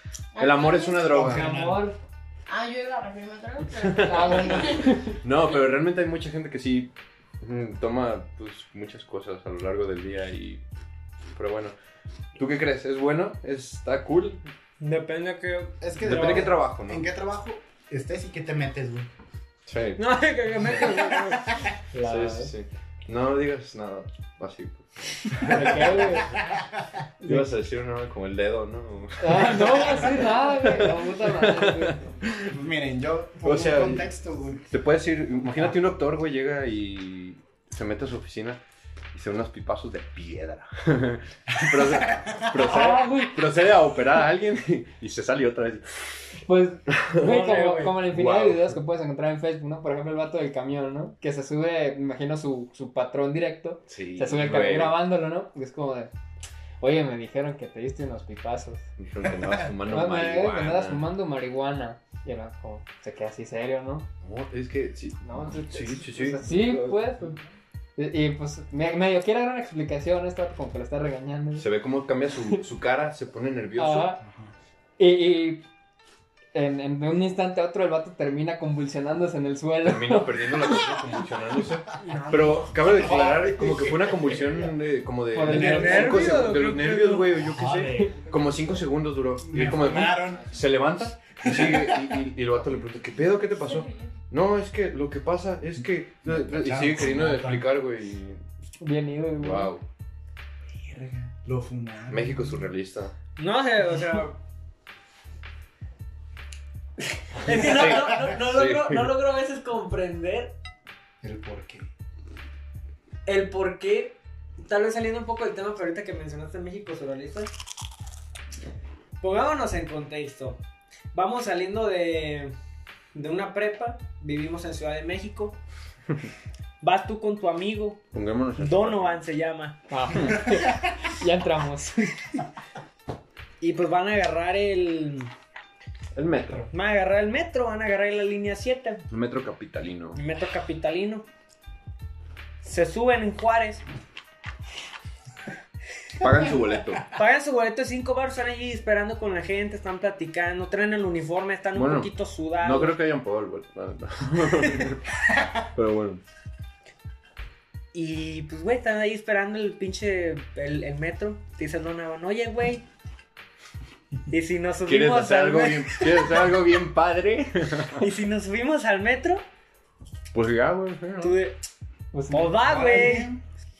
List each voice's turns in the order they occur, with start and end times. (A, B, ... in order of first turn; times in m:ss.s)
0:00.4-0:01.3 A
0:00.4-0:01.5 B
0:01.0-0:01.9 C
0:01.2-0:02.0 D
0:02.5-0:04.9 A
0:03.8-0:10.6 B
0:04.1-0:05.2 D
0:11.4-0:11.7 B
0:12.4-0:14.4 B
0:14.8-0:15.8 E
0:15.8-0:19.1 C
0:16.0-0:17.1 B
0:19.7-0:20.0 B
0:20.0-0:21.6 E
0:20.7-0:21.7 C
0:21.9-0:22.5 D
0:22.0-0:26.2 B
0:25.4-0:26.4 D
0:25.5-0:26.7 C
0:27.2-0:27.5 D
0:27.2-0:32.6 B
0:29.2-0:32.2 D
0:32.4-0:34.7 C
0:33.4-0:34.1 B
0:34.7-0:38.6 B
0:39.1-0:46.1 B
0:41.6-0:42.6 C
0:42.6-0:43.4 D
0:46.5-0:56.1 D
0:46.9-0:48.8 B
0:47.2-0:48.0 E
0:53.9-0:55.0 B
0:56.8-0:58.9 D
0:59.0-1:01.0 B
0:59.3-0:59.7 C
0:59.8-1:04.1 D
1:04.2-1:07.1 B
1:05.2-1:07.4 D
1:08.0-1:11.7 D
1:11.6-1:14.2 B
1:12.3-1:12.6 D
1:13.8-1:14.2 D
1:14.2-1:14.5 C
1:15.0-1:15.6 D
1:16.5-1:21.1 D
1:19.8-1:38.4 B
1:22.0-1:22.7 E
1:22.7-1:24.8 C
1:25.3-1:26.6 D
1:25.4-1:27.4 E
1:27.3-1:28.8 C
1:29.4-1:30.5 C
1:31.4-1:32.3 C
1:36.2-1:37.7 C
1:38.8-1:39.7 D
1:39.4-1:39.8 B
1:40.7-1:42.6 C
1:42.1-1:43.1 B
1:43.4-1:44.4 E
1:47.3-1:50.6 E
1:47.5-1:49.1 B
1:51.2-1:51.9 C
1:53.3-1:57.5 E
1:59.2-2:00.6 E
2:01.1-2:02.5 E
2:03.2-2:05.6 E
2:06.8-2:08.0 E
2:08.1-2:09.2 B
2:08.6-2:09.8 E
2:09.9-2:12.4 D
2:13.6-2:15.3 E
2:16.2-2:16.7 B
2:16.7-2:19.1 E
2:19.1-2:20.2 B
2:20.1-2:21.3 E
2:22.6-2:23.8 E
2:26.2-2:27.1 B
2:27.1-2:33.0 E
2:31.7-2:36.2 B
2:34.6-2:34.9 E
2:37.9-2:42.9 E
2:44.3-2:46.4 E
2:44.8-2:48.0 B
2:48.0-2:49.5 E
2:50.3-2:51.4 B
2:51.2-2:51.6 E
2:52.1-2:53.1 D
2:52.3-2:53.3 E
2:52.6-2:53.4 C